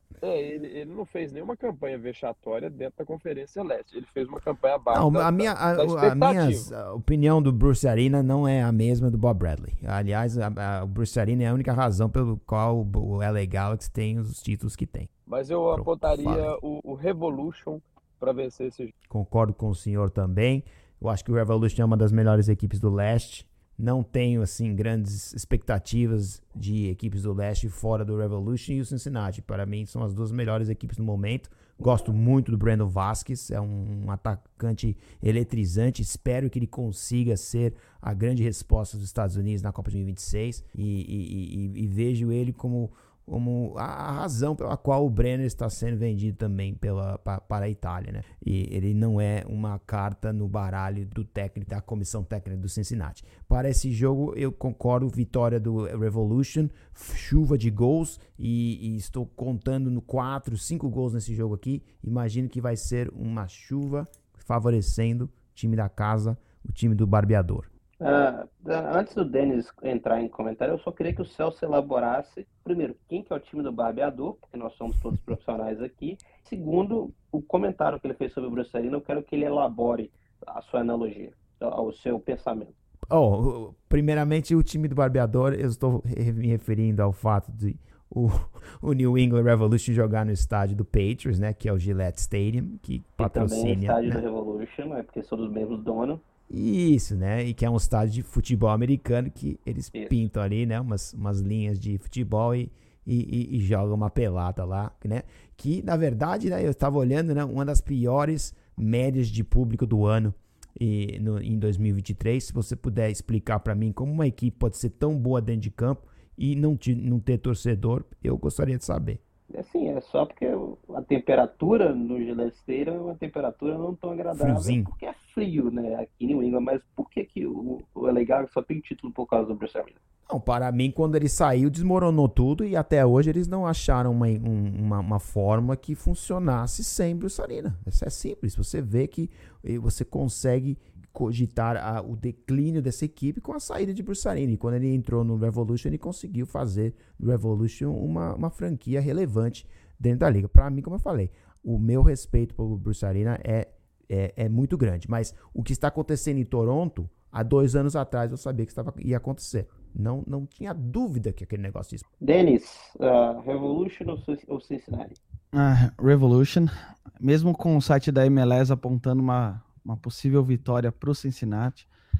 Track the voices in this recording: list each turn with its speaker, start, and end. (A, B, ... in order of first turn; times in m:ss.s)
0:00.2-0:06.7 A
0:04.9-0:15.1 B
0:15.3-0:18.9 A
0:15.7-0:16.6 B
0:19.1-1:07.7 B
1:08.0-1:22.8 C
1:23.1-1:34.2 B
1:33.2-1:36.2 C
1:36.5-1:59.2 B
1:59.5-2:10.0 C
2:04.3-2:04.9 B
2:10.3-2:42.0 B
2:42.2-2:45.2 C
2:45.5-2:51.9 D